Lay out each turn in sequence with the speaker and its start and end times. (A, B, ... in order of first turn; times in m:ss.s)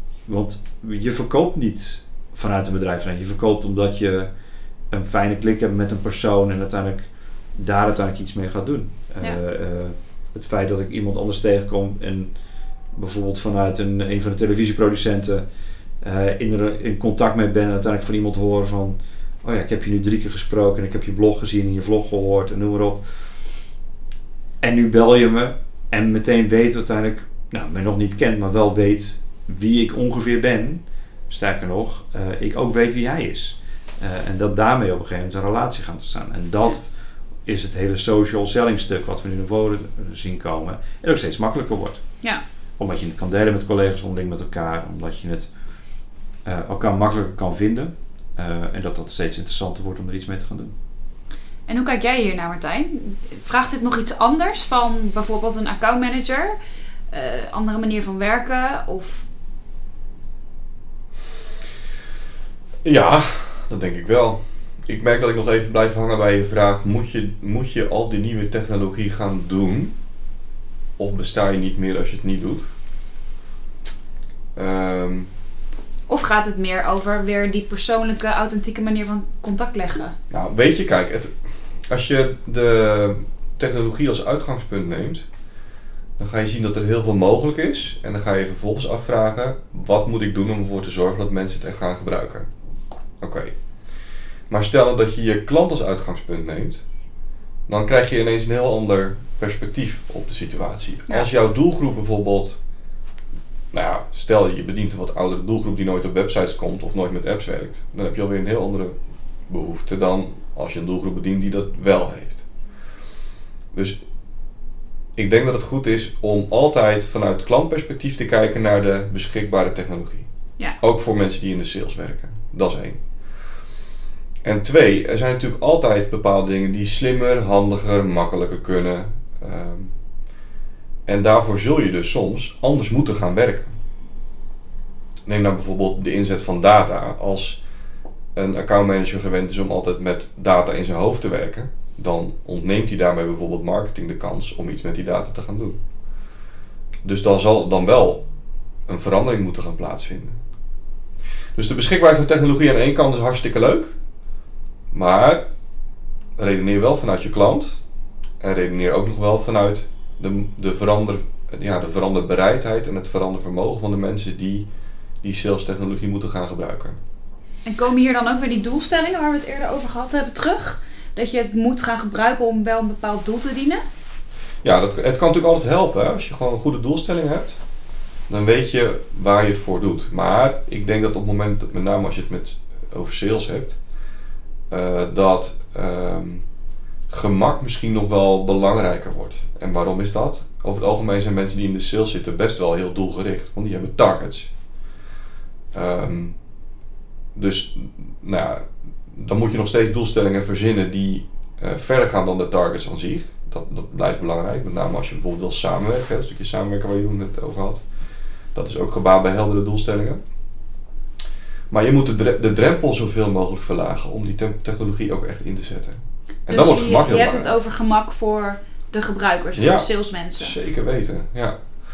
0:00.3-0:04.3 A
0:04.9-0:12.3 A
0:12.9-0:15.4 A
0:16.0-0:23.0 A
0:24.6-0:36.9 A
0:37.4-0:42.0 A
0:42.8-0:45.5 A
0:46.4-0:50.7 A
0:51.7-0:56.6 B
0:57.1-0:59.2 B
1:02.8-1:09.9 C
1:11.0-1:12.7 C
1:14.5-1:15.3 C
1:16.1-1:20.1 B
1:20.3-1:25.2 C
1:26.2-1:32.5 C
1:33.2-1:33.5 C
1:34.5-1:36.8 C
1:37.7-1:42.6 C
1:43.7-1:49.0 C
1:49.5-1:52.4 C
1:53.7-1:54.0 C
1:55.2-2:00.3 C
2:00.8-2:03.0 C
2:04.4-2:09.9 C
2:11.0-2:13.8 C
2:15.2-2:17.6 C
2:18.3-2:25.8 C
2:27.0-2:28.2 C
2:28.9-2:30.4 C
2:31.5-2:33.9 C
2:34.9-2:35.4 C
2:36.4-2:37.8 C
2:38.4-2:44.6 C
2:45.2-2:47.0 C
2:47.6-2:53.8 B
2:54.6-2:57.6 C
2:58.3-3:03.8 C
3:04.7-3:06.4 C
3:07.1-3:14.5 C
3:15.7-3:16.4 C
3:17.3-3:27.8 C
3:28.5-3:30.2 C
3:31.7-3:37.6 C
3:36.5-3:40.6 B
3:39.6-3:41.6 C